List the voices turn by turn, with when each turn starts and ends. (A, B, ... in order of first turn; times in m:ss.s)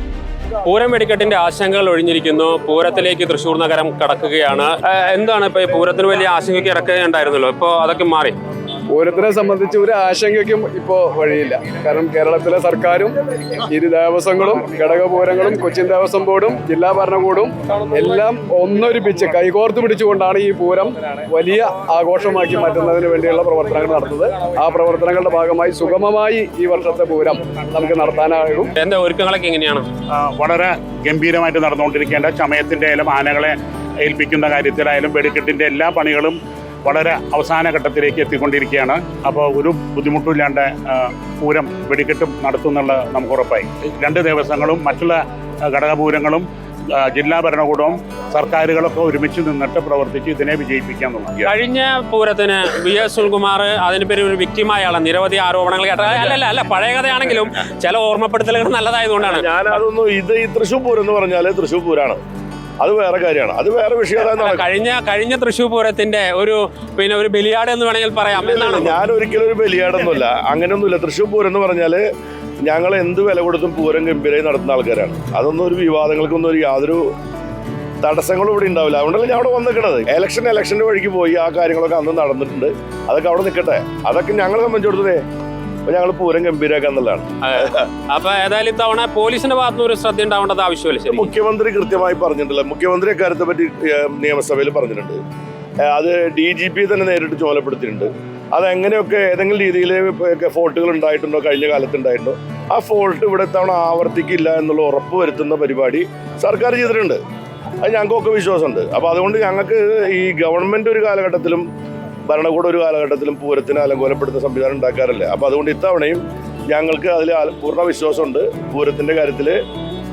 0:00.6-0:08.4 A
0:08.9-0:13.2 B
0:13.7-0:28.7 B
0:28.8-0:29.8 A
0:30.2-0:51.4 C
0:51.4-0:59.8 A
0:59.2-1:02.2 D
1:02.8-1:04.7 D
1:04.2-1:09.0 A
1:08.4-1:12.0 D
1:12.6-1:17.1 D
1:18.0-1:25.2 D
1:25.9-1:27.8 D
1:27.4-1:31.3 A
1:31.1-1:35.2 D
1:35.9-1:47.2 D
1:47.8-1:51.7 D
1:52.3-1:59.6 D